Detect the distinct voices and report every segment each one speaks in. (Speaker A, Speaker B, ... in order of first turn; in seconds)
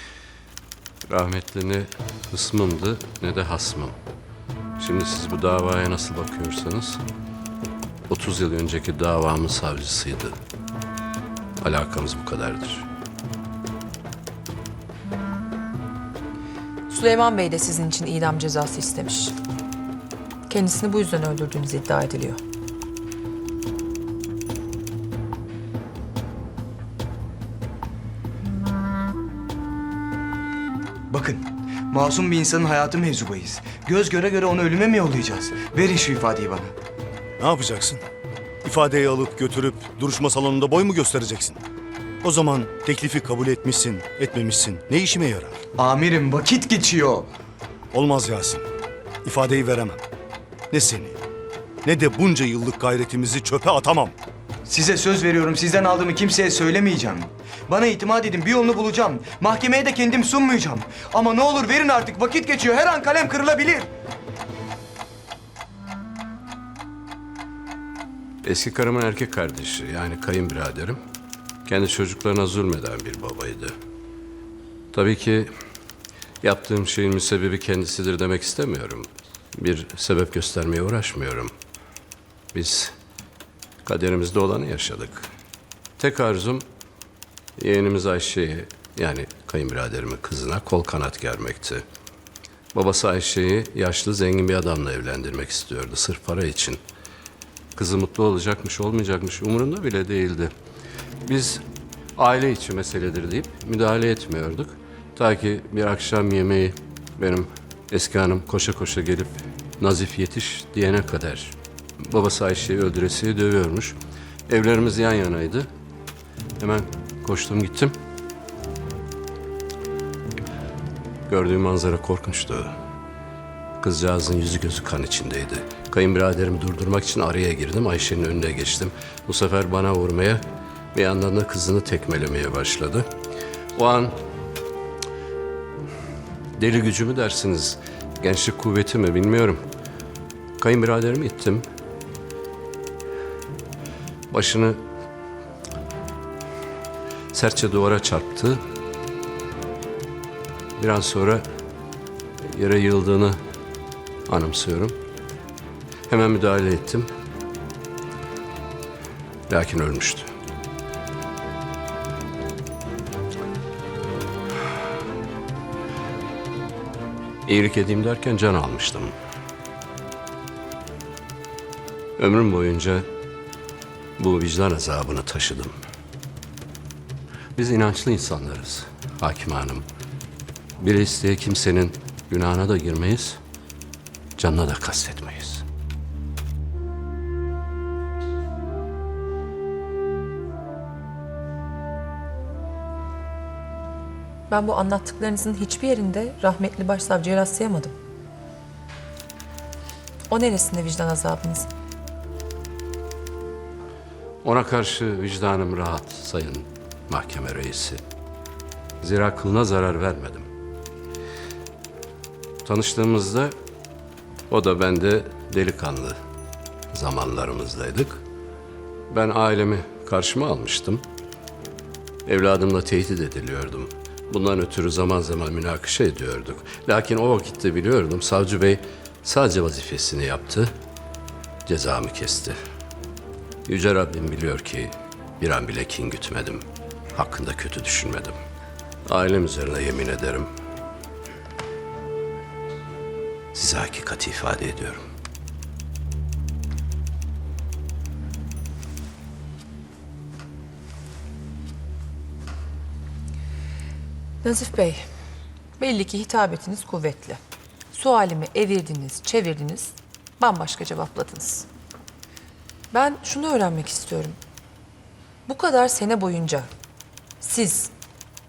Speaker A: 1.1-4.0, 4.8-7.0, 8.1-10.4, 11.6-12.9, 68.4-71.0, 71.7-73.7, 74.9-75.5, 76.4-81.5, 82.5-82.9, 83.8-85.3, 86.0-86.7, 87.6-91.8, 92.7-96.8, 97.8-100.5, 101.2-101.6, 102.2-114.0, 114.5-115.7, 116.6-118.0, 121.3-122.7, 123.8-130.4, 130.9-133.1, 133.8-134.1, 136.6-139.6, 140.6-141.7, 144.3-144.8, 147.3-148.6, 150.8-151.4, 152.4-153.4, 154.3-154.9, 156.1-157.1, 159.5-160.3, 167.5-169.2, 172.2-173.1, 174.2-175.8, 177.6-179.8, 180.8-183.4, 184.4-185.6, 204.4-208.0, 209.0-210.5, 212.6-213.5, 214.5-216.2, 216.9-218.2, 219.1-221.0, 222.3-230.7, 231.7-232.6, 233.7-236.6, 237.2-238.4, 239.1-240.5, 243.5-245.0
Speaker B: 16.9-19.4, 20.5-22.4, 194.5-197.9, 200.3-201.7, 254.4-255.0, 255.8-257.4, 257.9-261.7, 262.9-264.4, 265.5-266.7, 267.4-267.9
Speaker C: 31.1-36.7, 45.8-47.3, 54.7-63.9
Speaker D: 37.4-38.0, 38.6-41.6, 42.2-45.6, 47.9-48.6, 49.2-50.0, 50.7-51.2, 51.8-54.1